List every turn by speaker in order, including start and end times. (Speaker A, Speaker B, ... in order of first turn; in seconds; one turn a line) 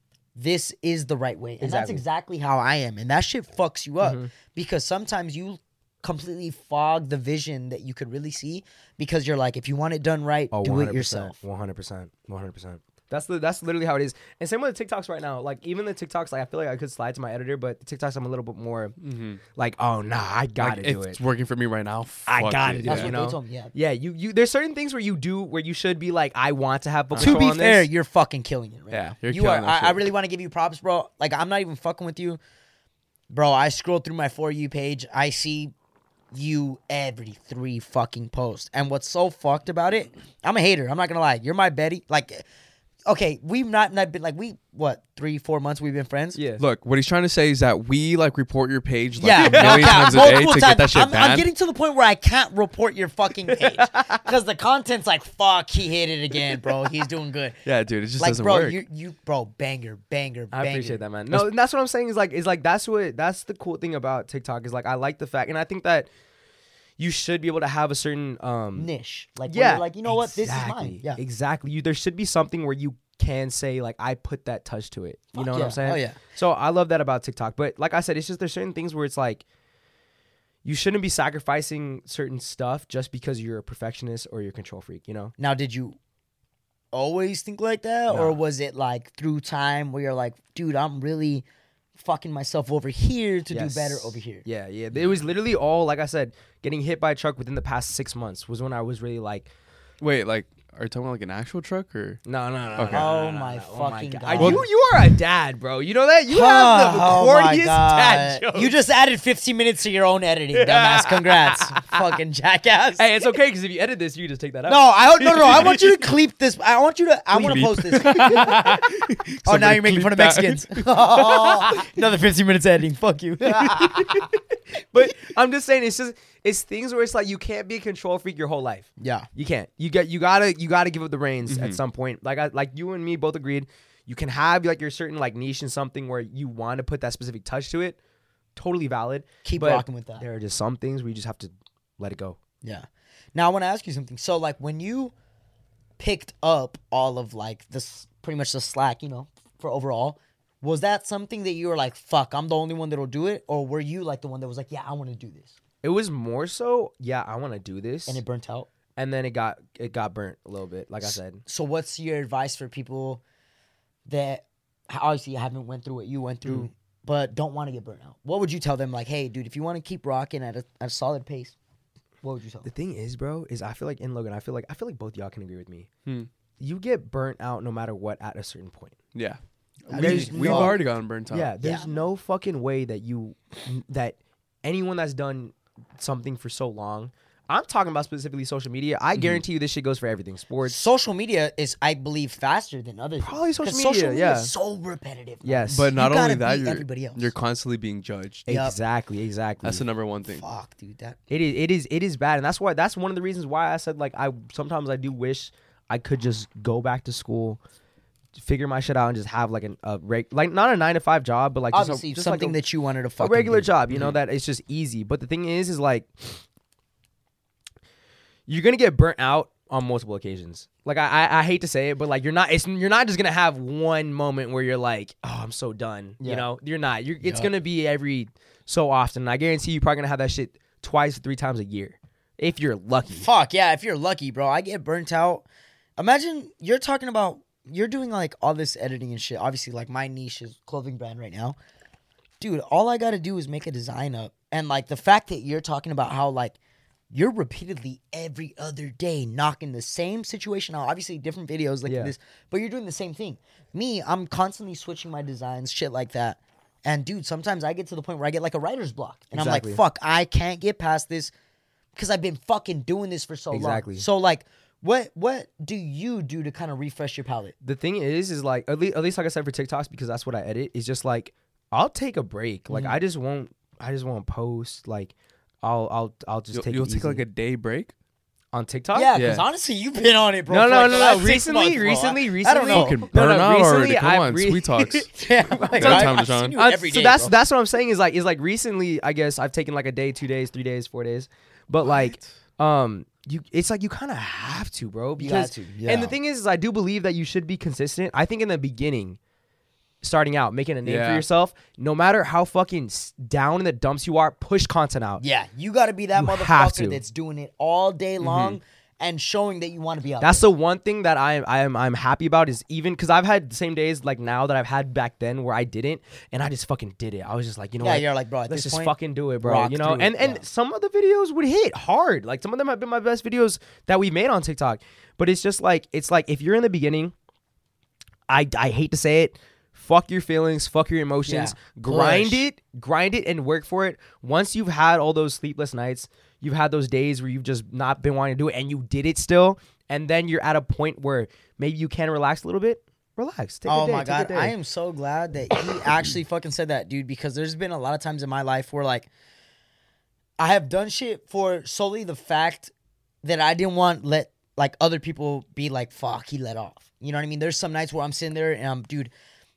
Speaker A: 0.3-11.4
Speaker B: 1.6-2.0
Speaker B: 4.0-4.3
Speaker B: 10.5-18.9
Speaker C: 19.0-19.4
Speaker B: 19.5-21.2
Speaker C: 20.6-23.1
Speaker B: 22.2-27.9
Speaker A: 22.8-23.7
Speaker C: 27.1-27.4
Speaker A: 27.2-32.4
Speaker C: 28.9-30.1
Speaker A: 33.3-35.7
Speaker A: 36.3-42.4
Speaker A: 43.0-46.4
Speaker B: 46.3-46.6
Speaker C: 46.6-51.5
Speaker A: 49.2-57.6
Speaker B: 49.3-50.4
Speaker B: 53.5-54.2
Speaker C: 57.6-58.8
Speaker A: 58.2-61.0
Speaker B: 60.5-66.1
Speaker B: 67.0-68.9
Speaker A: 68.8-71.2
Speaker B: 69.5-79.4
Speaker A: 75.3-76.2
Speaker B: 80.6-85.3
Speaker A: 85.4-86.0
Speaker A: 86.9-91.4
Speaker B: 88.1-88.4
Speaker A: 92.0-95.2
Speaker B: 93.5-99.5
Speaker C: 100.0-102.2
Speaker B: 102.2-108.7
Speaker C: 102.8-103.1
Speaker A: 102.9-104.7
Speaker C: 104.3-104.6
Speaker A: 106.3-113.1
Speaker B: 110.5-112.1
Speaker B: 113.0-116.0
Speaker A: 114.7-118.9
Speaker C: 117.3-121.8
Speaker A: 119.4-124.3
Speaker B: 121.4-121.8
Speaker B: 123.5-124.4
Speaker B: 124.9-138.0
Speaker A: 129.0-129.2
Speaker C: 131.5-131.8
Speaker B: 138.6-142.4
Speaker A: 139.4-140.2
Speaker A: 142.6-145.1
Speaker A: 146.0-155.5
Speaker B: 155.8-158.2
Speaker A: 158.1-158.7
Speaker B: 158.9-161.4
Speaker A: 161.0-163.2
Speaker A: 164.1-171.5
Speaker A: 172.2-172.7
Speaker B: 172.6-175.9
Speaker B: 176.6-179.0
Speaker C: 179.1-181.5
Speaker A: 179.9-180.8
Speaker B: 179.9-190.8
Speaker A: 181.6-181.9
Speaker C: 189.1-189.4
Speaker A: 190.6-197.3
Speaker B: 193.2-194.5
Speaker B: 195.4-195.9
Speaker C: 195.7-198.5
Speaker B: 198.5-199.8
Speaker A: 198.5-198.7
Speaker C: 199.6-200.4
Speaker A: 200.3-201.2
Speaker B: 201.3-207.6
Speaker B: 208.3-212.6
Speaker A: 211.7-213.7
Speaker B: 213.2-216.4
Speaker B: 218.5-233.3
Speaker A: 226.2-226.5
Speaker A: 227.2-227.5
Speaker A: 233.1-235.4
Speaker A: 236.0-241.6
Speaker A: 242.4-246.6
Speaker A: 247.1-261.3
Speaker B: 251.9-252.1
Speaker B: 259.3-259.8
Speaker A: 261.9-267.5
Speaker B: 263.5-264.0
Speaker B: 267.6-277.2
Speaker A: 272.7-272.9
Speaker C: 276.5-277.9
Speaker B: 278.5-279.1
Speaker A: 278.9-283.0
Speaker C: 279.1-279.4
Speaker B: 280.5-285.1
Speaker C: 282.7-285.1
Speaker A: 285.1-287.3
Speaker B: 285.6-299.2
Speaker C: 285.7-286.6
Speaker C: 291.8-292.4
Speaker A: 295.2-296.1
Speaker B: 300.0-305.2
Speaker C: 300.8-301.2
Speaker A: 305.2-310.4
Speaker B: 306.1-307.0
Speaker B: 308.2-308.6
Speaker B: 310.2-327.1
Speaker A: 317.8-320.4
Speaker B: 328.3-344.5
Speaker A: 331.2-332.4
Speaker A: 343.7-349.1
Speaker A: 350.4-352.7
Speaker A: 353.2-359.1